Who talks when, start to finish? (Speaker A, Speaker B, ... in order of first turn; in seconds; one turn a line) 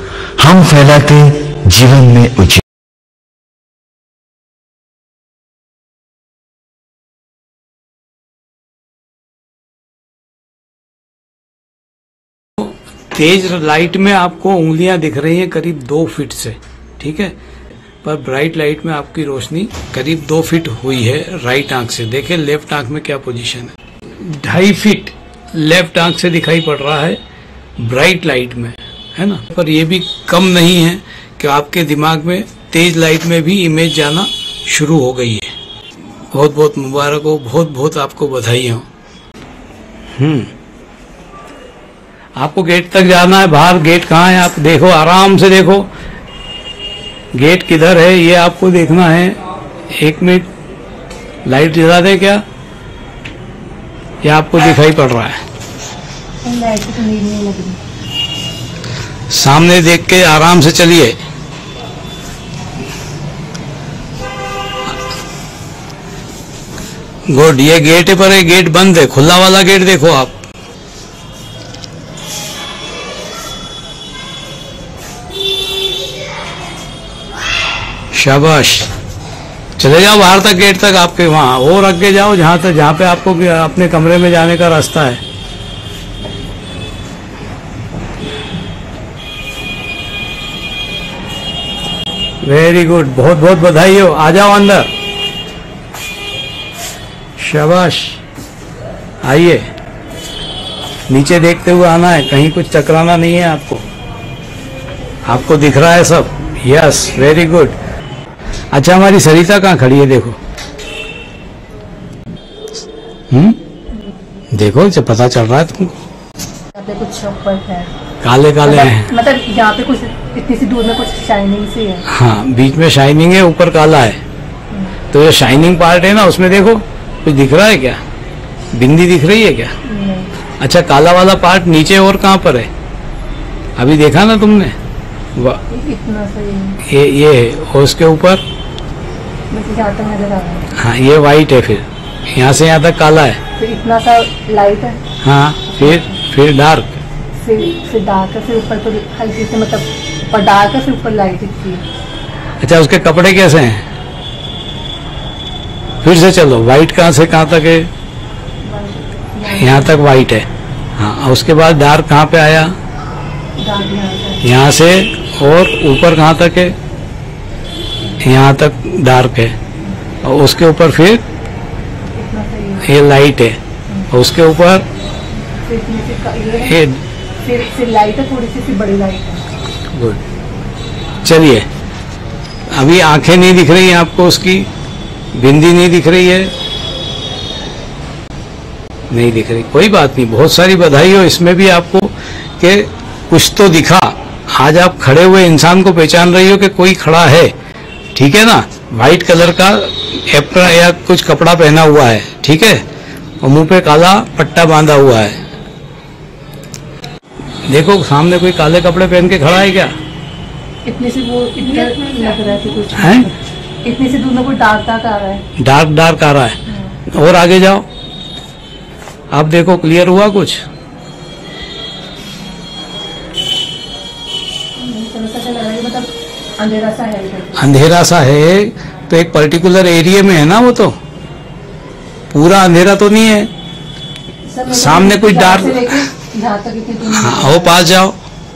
Speaker A: 0.4-2.6
Speaker B: 12.6-17.3
Speaker B: 18.0-27.2
Speaker B: 27.8-35.5
Speaker B: 36.3-38.9
Speaker B: 40.1-40.5
Speaker B: 42.4-45.9
Speaker B: 47.3-49.4
Speaker B: 50.0-50.5
Speaker B: 51.5-52.4
Speaker B: 54.2-55.4
Speaker C: 56.4-57.8
Speaker B: 59.3-61.2
Speaker B: 67.3-70.4
Speaker B: 78.1-78.9
Speaker B: 79.8-85.2
Speaker B: 92.4-94.9
Speaker B: 97.4-98.2
Speaker B: 99.2-99.7
Speaker B: 101.1-103.8
Speaker B: 105.2-107.8
Speaker B: 108.7-110.4
Speaker B: 113.3-113.6
Speaker B: 114.5-115.9
Speaker C: 116.7-117.9
Speaker B: 118.2-119.1
Speaker C: 118.6-122.0
Speaker B: 122.1-124.2
Speaker C: 124.7-125.0
Speaker B: 125.1-128.0
Speaker B: 128.7-129.7
Speaker C: 129.8-130.3
Speaker B: 130.6-132.7
Speaker B: 133.8-134.8
Speaker C: 135.7-136.8
Speaker B: 136.9-138.4
Speaker C: 139.5-140.7
Speaker B: 140.8-143.4
Speaker C: 143.6-145.0
Speaker B: 145.2-147.0
Speaker C: 145.7-146.1
Speaker C: 147.4-151.8
Speaker B: 152.6-153.8
Speaker B: 156.0-157.9
Speaker C: 158.6-160.1
Speaker B: 159.6-162.8
Speaker C: 163.6-164.4
Speaker B: 164.4-166.8
Speaker B: 168.2-169.6
Speaker B: 170.2-171.2
Speaker C: 172.1-172.9
Speaker B: 172.8-173.6
Speaker B: 174.1-174.8
Speaker C: 175.5-176.8
Speaker B: 176.7-177.0
Speaker C: 177.4-179.4
Speaker B: 179.9-180.2
Speaker B: 181.2-181.7
Speaker B: 182.7-184.7
Speaker B: 185.3-186.5
Speaker B: 189.1-197.5
Speaker B: 198.2-202.8
Speaker B: 203.4-205.4
Speaker B: 207.7-209.9
Speaker C: 210.8-215.4
Speaker B: 213.0-213.3
Speaker B: 215.6-216.6
Speaker B: 217.1-217.8
Speaker B: 219.3-220.6
Speaker C: 224.8-227.7
Speaker B: 227.6-231.0
Speaker B: 232.3-233.5
Speaker C: 234.5-237.8
Speaker B: 234.7-236.0
Speaker B: 237.1-238.2